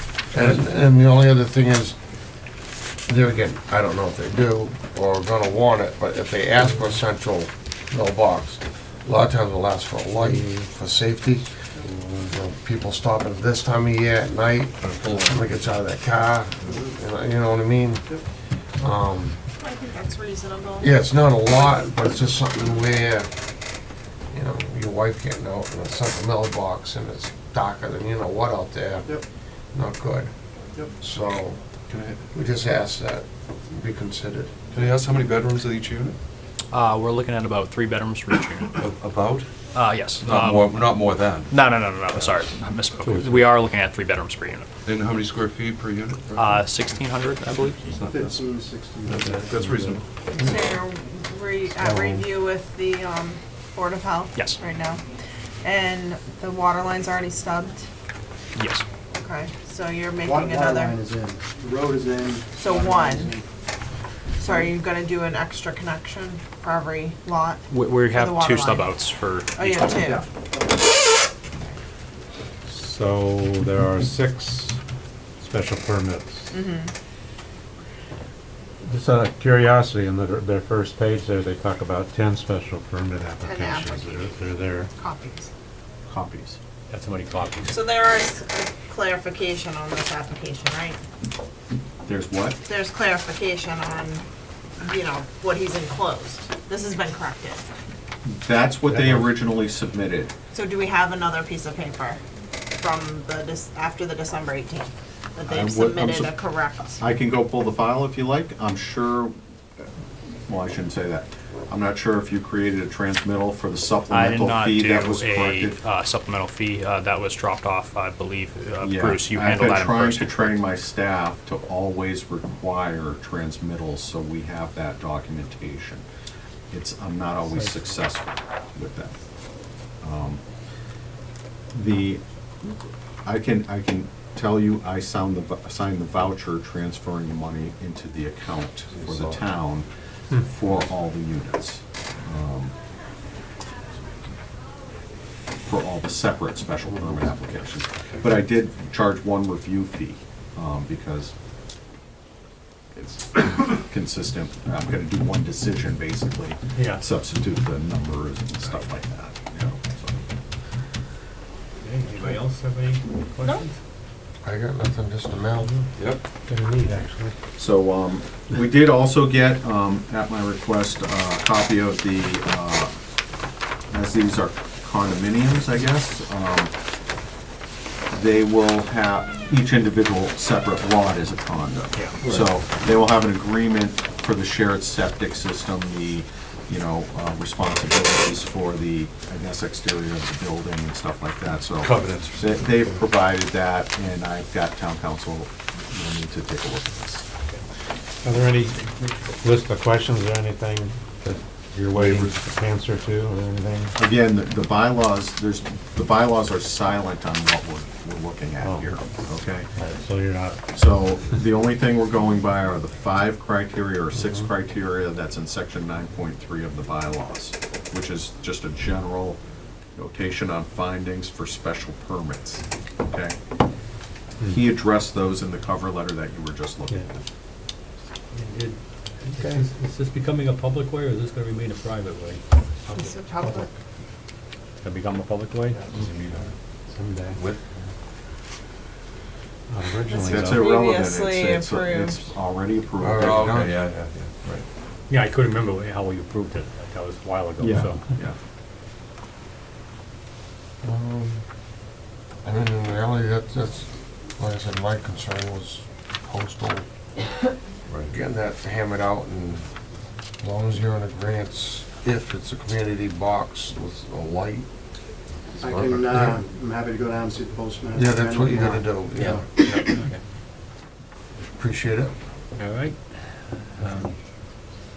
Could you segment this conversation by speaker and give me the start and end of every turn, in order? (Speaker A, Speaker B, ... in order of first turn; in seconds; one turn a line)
Speaker A: 0.3-2.0
Speaker A: 3.1-11.4
Speaker A: 12.3-18.1
Speaker B: 14.8-15.8
Speaker A: 18.8-19.4
Speaker C: 19.6-21.0
Speaker A: 20.8-23.3
Speaker C: 21.5-21.9
Speaker A: 24.3-29.1
Speaker A: 29.7-30.3
Speaker A: 31.0-31.6
Speaker B: 31.9-32.2
Speaker A: 32.3-34.5
Speaker B: 34.7-36.2
Speaker D: 36.7-38.7
Speaker B: 38.8-39.5
Speaker D: 39.7-40.8
Speaker B: 40.1-41.5
Speaker D: 41.5-44.7
Speaker E: 43.0-43.3
Speaker B: 44.9-46.6
Speaker D: 46.4-47.8
Speaker B: 47.8-48.4
Speaker F: 48.0-49.6
Speaker B: 49.1-50.0
Speaker E: 49.6-50.0
Speaker C: 50.3-55.0
Speaker E: 51.8-52.2
Speaker C: 55.6-57.8
Speaker D: 58.6-58.9
Speaker C: 59.1-61.0
Speaker F: 60.2-63.5
Speaker C: 62.6-63.3
Speaker C: 64.4-69.0
Speaker F: 64.4-64.7
Speaker D: 67.7-69.6
Speaker C: 69.5-70.2
Speaker F: 69.6-70.8
Speaker E: 72.7-74.8
Speaker E: 75.4-76.5
Speaker C: 76.5-76.9
Speaker E: 78.9-84.9
Speaker C: 83.4-85.5
Speaker G: 86.1-86.6
Speaker H: 86.9-87.7
Speaker C: 87.7-91.0
Speaker G: 92.0-92.6
Speaker C: 92.6-94.2
Speaker C: 94.8-97.6
Speaker G: 98.2-100.3
Speaker E: 99.0-99.2
Speaker C: 100.5-102.2
Speaker C: 102.8-107.0
Speaker G: 105.5-106.4
Speaker G: 107.0-109.3
Speaker G: 110.5-115.8
Speaker D: 114.1-120.6
Speaker G: 118.8-126.0
Speaker G: 126.7-129.2
Speaker G: 130.0-130.4
Speaker G: 131.7-142.8
Speaker G: 145.7-151.3
Speaker G: 152.9-160.2
Speaker H: 156.8-157.1
Speaker H: 161.8-163.8
Speaker C: 163.4-163.7
Speaker A: 164.4-165.7
Speaker E: 166.5-167.3
Speaker G: 167.6-173.0
Speaker G: 173.9-176.7
Speaker G: 178.1-197.3
Speaker H: 181.9-182.2
Speaker B: 182.2-182.5
Speaker B: 191.8-193.0
Speaker E: 198.2-198.8
Speaker E: 199.4-203.9
Speaker G: 204.0-209.7
Speaker E: 208.6-208.9
Speaker E: 209.8-210.6
Speaker G: 210.7-219.4
Speaker G: 219.9-223.4
Speaker G: 224.4-227.2
Speaker H: 228.3-232.4
Speaker C: 232.9-233.7
Speaker H: 234.8-235.8
Speaker B: 235.9-236.5
Speaker E: 237.0-237.4
Speaker B: 237.3-237.8
Speaker E: 239.7-240.6
Speaker C: 240.1-242.3
Speaker G: 240.3-243.6
Speaker A: 243.0-243.8
Speaker B: 243.0-244.6
Speaker H: 245.1-248.0
Speaker G: 247.6-248.4
Speaker A: 250.8-251.4
Speaker A: 252.4-256.9
Speaker A: 258.1-259.6
Speaker A: 260.4-264.7
Speaker A: 265.6-266.4
Speaker F: 265.6-269.4
Speaker A: 268.0-269.9
Speaker H: 269.6-270.2
Speaker A: 271.5-272.1
Speaker H: 272.6-273.0
Speaker H: 273.8-274.1